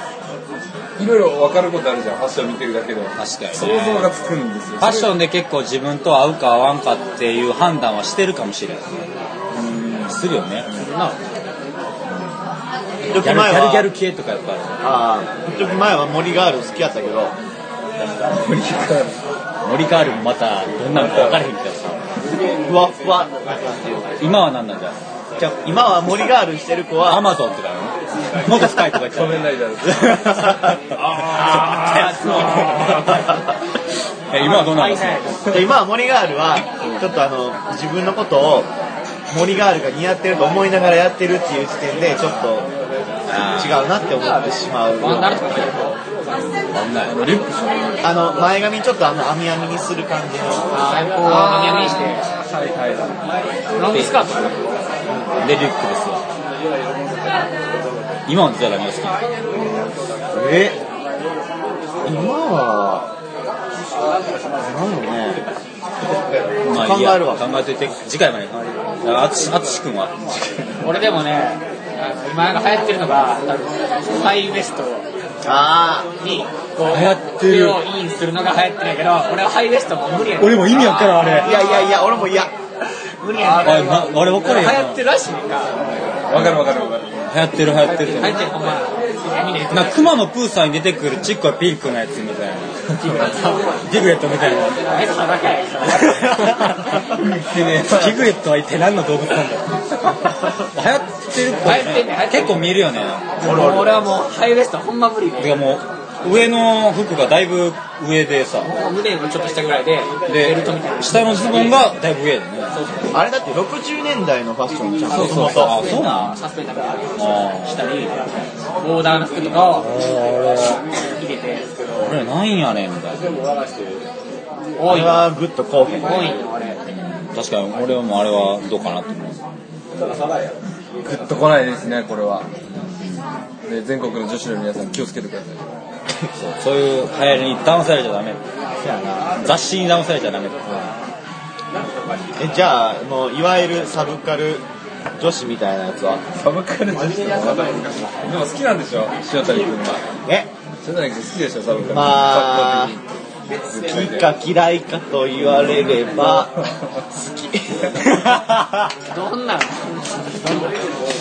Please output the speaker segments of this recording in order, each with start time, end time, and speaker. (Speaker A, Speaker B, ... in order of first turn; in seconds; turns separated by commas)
Speaker A: 1.0-5.1, Speaker B: 3.2-4.1, Speaker B: 4.8-9.1, Speaker A: 9.5-10.9, Speaker B: 10.1-10.7, Speaker C: 13.1-13.9, Speaker B: 13.1-14.8, Speaker C: 14.8-17.4, Speaker A: 18.3-19.2, Speaker B: 19.6-22.1, Speaker A: 20.9-21.4, Speaker C: 22.6-24.2, Speaker B: 24.2-25.0, Speaker C: 25.4-27.2, Speaker B: 27.1-30.8, Speaker A: 28.7-30.6, Speaker D: 31.1-33.3, Speaker A: 31.2-32.0, Speaker B: 31.6-33.1, Speaker B: 34.3-35.4, Speaker D: 34.4-35.7, Speaker C: 35.5-38.7, Speaker C: 39.3-42.7, Speaker B: 43.3-43.9, Speaker C: 43.4-45.6, Speaker D: 45.0-46.0, Speaker B: 46.7-47.2, Speaker A: 47.0-47.9, Speaker C: 48.0-51.0, Speaker D: 50.7-52.2, Speaker A: 51.2-53.5, Speaker D: 53.8-54.7, Speaker B: 53.9-54.2, Speaker C: 55.1-55.4, Speaker B: 55.4-56.2, Speaker B: 58.3-59.2, Speaker C: 60.3-60.8, Speaker C: 62.0-63.1, Speaker C: 64.6-65.4, Speaker B: 66.6-70.1, Speaker C: 66.7-67.4, Speaker A: 70.3-70.9, Speaker D: 70.8-75.1, Speaker C: 75.4-76.1, Speaker D: 76.2-81.9, Speaker B: 76.9-77.8, Speaker B: 80.4-81.5, Speaker C: 81.4-82.5, Speaker D: 83.2-85.8, Speaker B: 83.6-85.0, Speaker A: 85.8-87.3, Speaker B: 86.3-88.4, Speaker D: 87.8-90.1, Speaker B: 89.7-92.8, Speaker D: 93.0-93.8, Speaker B: 93.8-94.8, Speaker D: 94.7-96.4, Speaker B: 95.9-97.1, Speaker A: 97.0-98.3, Speaker B: 97.8-99.8, Speaker B: 100.5-103.5, Speaker D: 101.6-102.8, Speaker D: 103.4-105.6, Speaker C: 103.4-104.1, Speaker B: 105.4-108.8, Speaker D: 108.7-111.9, Speaker B: 110.3-112.8, Speaker D: 112.7-113.2, Speaker C: 113.1-115.8, Speaker B: 115.1-116.4, Speaker D: 115.2-120.0, Speaker B: 117.2-117.9, Speaker B: 119.8-120.8, Speaker D: 120.6-122.1, Speaker B: 122.0-123.4, Speaker D: 124.8-125.2, Speaker C: 124.9-126.4, Speaker D: 126.0-126.8, Speaker B: 126.9-129.4, Speaker A: 131.0-132.5, Speaker B: 132.7-133.2, Speaker A: 133.6-135.7, Speaker B: 136.4-138.4, Speaker C: 138.8-139.4, Speaker B: 139.4-140.9, Speaker C: 142.4-144.7, Speaker C: 145.2-146.2, Speaker A: 146.3-150.0, Speaker C: 150.2-150.5, Speaker A: 150.8-153.0, Speaker C: 151.9-153.0, Speaker A: 153.7-154.3, Speaker C: 153.7-158.4, Speaker A: 156.2-156.4, Speaker B: 158.2-158.9, Speaker D: 159.1-160.8